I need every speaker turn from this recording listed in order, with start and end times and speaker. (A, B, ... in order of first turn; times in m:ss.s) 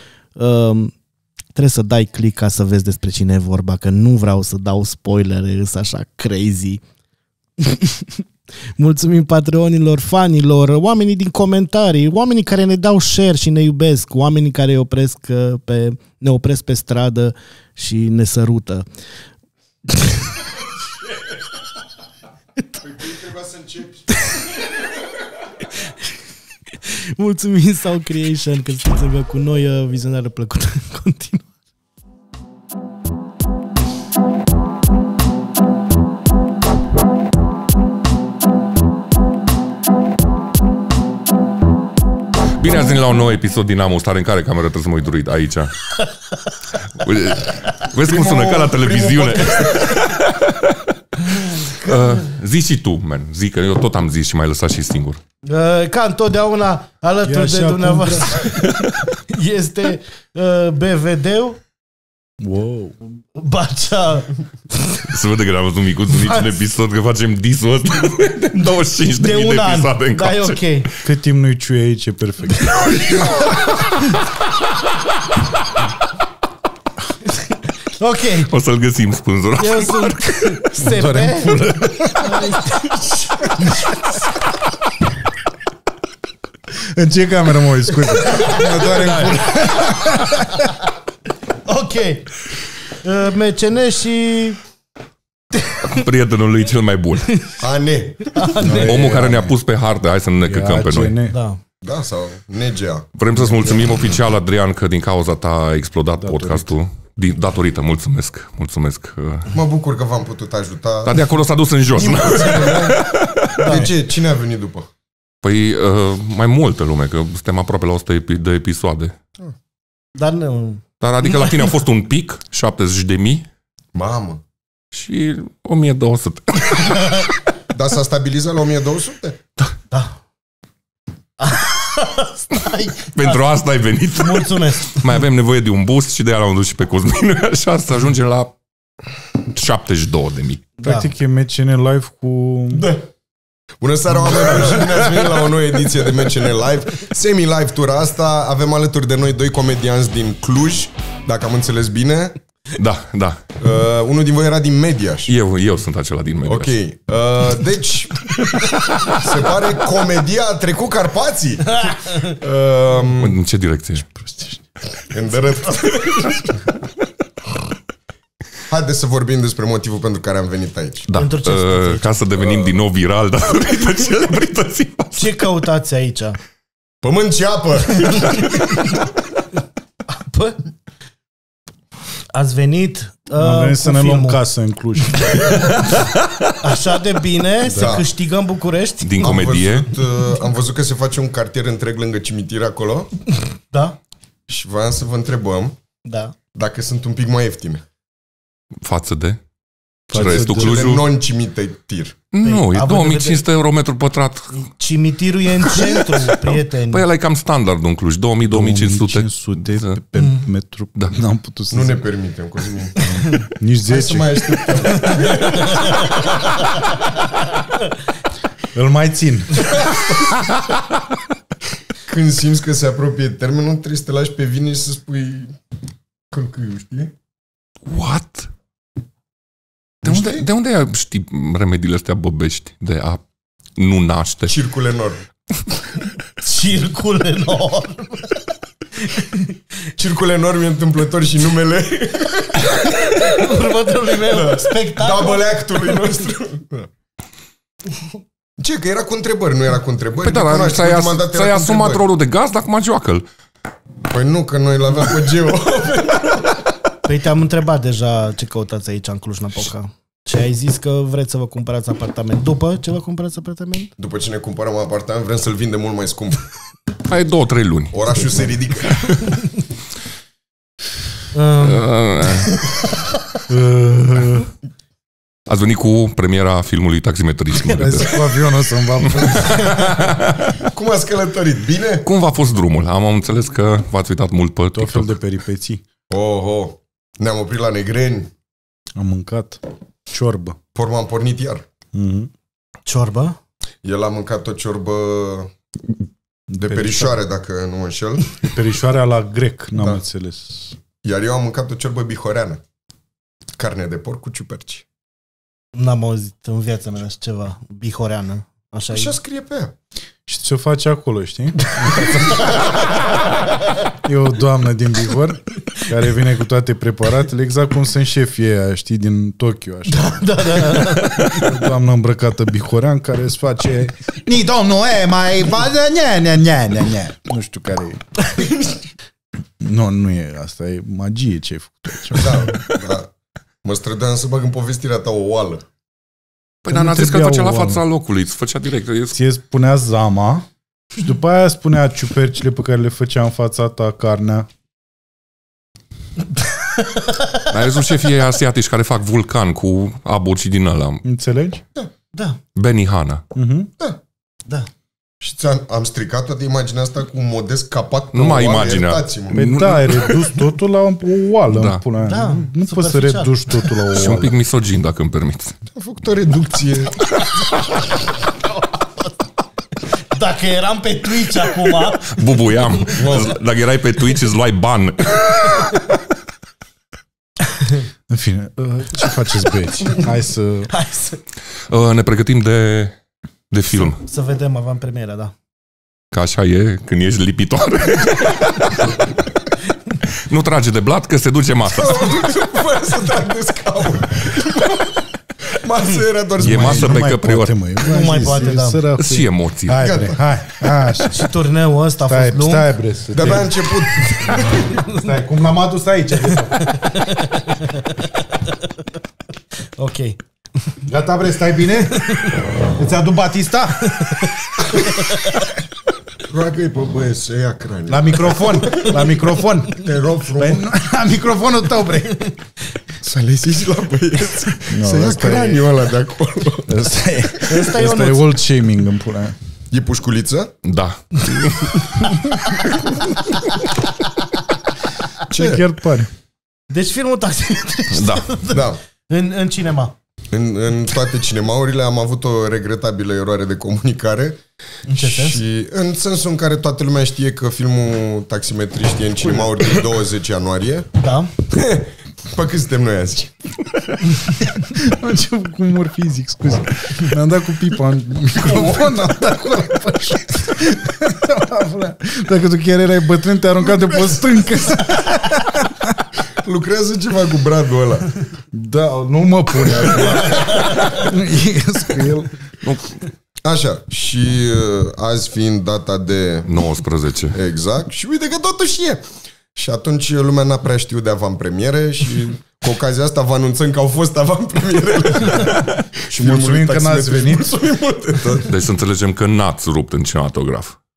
0:00.4-0:00.9 A
0:01.5-0:06.8 A
0:07.6-0:08.1 A
0:08.8-0:18.8 A
0:22.8-0:24.1 B
0:26.8-0:31.5 A
0:42.5-0:45.9 C
0:47.0-0:55.2 C
0:48.0-0:49.8 B
0:51.6-0:52.1 A
0:55.4-1:01.6 A
0:57.2-0:58.5 D
1:02.4-1:02.9 D
1:03.3-1:05.1 A
1:05.1-1:10.6 C
1:09.2-1:10.9 A
1:11.0-1:13.2 D
1:17.2-1:18.5 A
1:18.5-1:20.5 C
1:19.6-1:24.0 A
1:20.8-1:22.6 D
1:26.7-1:30.7 D
1:28.2-1:30.6 A
1:28.5-1:29.4 B
1:31.6-1:34.6 A
1:35.8-1:37.4 C
1:37.6-1:38.4 B
1:38.3-1:39.0 A
1:38.6-1:39.6 D
1:38.6-1:41.2 C
1:40.4-1:41.4 D
1:41.3-1:41.6 A
1:41.8-1:43.1 B
1:43.2-1:49.5 C
1:46.2-1:46.7 D
1:49.5-1:51.3 B
1:51.0-1:53.7 C
1:52.0-1:53.0 B
1:53.6-1:53.9 A
1:53.6-1:54.9 B
1:55.4-1:59.1 C
2:00.2-2:00.8 A
2:01.0-2:03.5 C
2:03.9-2:04.4 B
2:04.9-2:07.3 C
2:07.7-2:09.4 B
2:09.9-2:10.2 A
2:11.4-2:13.4 A
2:13.1-2:18.5 C
2:14.1-2:15.1 A
2:19.5-2:20.7 C
2:20.8-2:21.1 A
2:20.8-2:22.9 D
2:22.7-2:23.1 B
2:23.8-2:32.4 B
2:24.4-2:25.4 C
2:32.7-2:33.4 C
2:33.6-2:35.3 B
2:35.2-2:36.7 C
2:36.4-2:43.4 B
2:43.2-2:44.1 C
2:44.2-2:44.6 D
2:45.1-2:46.6 B
2:48.7-2:51.1 B
2:51.1-2:55.4 C
2:51.1-2:52.2 A
2:55.2-2:56.4 A
2:57.0-2:58.7 B
3:00.1-3:00.6 A
3:02.3-3:04.4 A
3:03.4-3:05.4 D
3:05.1-3:05.7 A
3:06.6-3:09.4 A
3:07.6-3:08.0 D
3:07.7-3:08.1 B
3:09.0-3:09.9 C
3:09.2-3:13.1 B
3:13.7-3:14.0 A
3:14.5-3:15.8 B
3:16.0-3:16.3 A
3:16.5-3:17.8 B
3:18.8-3:19.4 C
3:20.1-3:21.0 D
3:20.1-3:21.1 C
3:20.1-3:22.2 B
3:22.3-3:24.5 C
3:22.4-3:23.4 A
3:24.5-3:27.0 A
3:25.6-3:30.0 C
3:28.5-3:32.0 D
3:31.7-3:33.2 B
3:33.0-3:34.3 D
3:33.8-3:36.3 B
3:38.7-3:39.7 D
3:39.8-3:40.3 B
3:42.0-3:45.6 B
3:46.3-3:47.1 B
3:47.9-3:48.5 C
3:50.0-3:50.4 B
3:50.0-3:53.2 C
3:53.8-3:54.6 C
3:54.5-3:55.2 B
3:56.4-3:58.4 A
3:59.0-3:59.6 A
4:00.0-4:03.3 B
4:03.0-4:05.4 A
4:04.2-4:06.9 B
4:08.6-4:12.1 B
4:10.2-4:13.2 C
4:14.1-4:16.7 B
4:17.0-4:23.9 A
4:24.0-4:26.5 B
4:27.0-4:28.5 C
4:27.9-4:29.4 B
4:31.3-4:32.7 A
4:31.6-4:32.6 C
4:33.5-4:34.5 D
4:35.5-4:38.3 C
4:37.7-4:39.8 D
4:39.0-4:40.6 C
4:40.6-4:42.0 B
4:42.0-4:45.1 C
4:44.7-4:45.8 D
4:46.1-4:48.3 B
4:49.0-4:50.6 D
4:50.7-4:51.6 B
4:51.9-4:52.3 D
4:52.8-4:53.4 A
4:53.8-4:55.5 B
4:56.5-4:57.2 D
4:56.5-4:58.5 B
4:58.4-5:00.8 D
5:01.0-5:02.6 B
5:03.6-5:04.8 B
5:05.7-5:09.2 A
5:08.9-5:09.7 B
5:10.2-5:12.7 D
5:14.0-5:28.1 D
5:19.9-5:21.5 A
5:29.6-5:32.6 D
5:32.1-5:33.1 B
5:33.6-5:35.6 B
5:36.6-5:39.2 C
5:36.7-5:37.8 D
5:39.1-5:44.5 D
5:47.4-5:51.0 C
5:51.0-5:51.6 D
5:52.1-5:52.4 A
5:52.5-5:53.2 C
5:53.3-5:53.7 D
5:55.2-5:59.4 B
5:58.1-6:00.2 C
5:59.3-6:04.4 D
6:01.5-6:01.8 C
6:02.0-6:03.7 A
6:03.9-6:05.5 C
6:05.7-6:07.3 B
6:08.2-6:09.1 A
6:10.1-6:12.8 A
6:12.0-6:15.7 C
6:12.9-6:13.4 B
6:18.1-6:20.7 D
6:20.7-6:21.2 A
6:21.7-6:22.9 C
6:23.5-6:24.0 C
6:23.9-6:25.3 A
6:26.1-6:28.9 C
6:30.0-6:32.1 C
6:31.7-6:34.9 B
6:35.5-6:37.1 B
6:36.4-6:37.6 C
6:36.4-6:41.3 D
6:37.8-6:38.8 A
6:39.0-6:39.9 C
6:39.8-6:40.2 B
6:41.1-6:42.7 A
6:42.1-6:46.8 D
6:43.1-6:44.6 B
6:44.3-6:45.1 A
6:46.6-6:48.7 A
6:49.8-6:50.2 A
6:50.8-6:54.1 D
6:51.9-6:52.5 A
6:53.8-6:55.5 A
6:56.2-7:00.6 B
6:57.9-7:02.4 D
7:03.0-7:06.8 B
7:04.7-7:05.7 D
7:06.7-7:09.4 D
7:07.4-7:08.4 A
7:09.7-7:10.5 B
7:10.6-7:12.1 C
7:15.3-7:15.6 B
7:15.3-7:16.1 D
7:16.7-7:19.9 A
7:17.9-7:18.3 C
7:18.5-7:18.8 B
7:20.3-7:30.9 B
7:24.8-7:25.4 A
7:31.0-7:31.3 A
7:31.5-7:33.3 B
7:34.7-7:46.0 D
7:46.4-7:48.2 B
7:48.5-7:52.3 D
7:52.6-7:53.0 C
7:53.4-7:56.5 B
7:56.5-7:57.4 C
7:57.3-8:08.5 B
8:06.2-8:07.6 D
8:08.4-8:10.8 C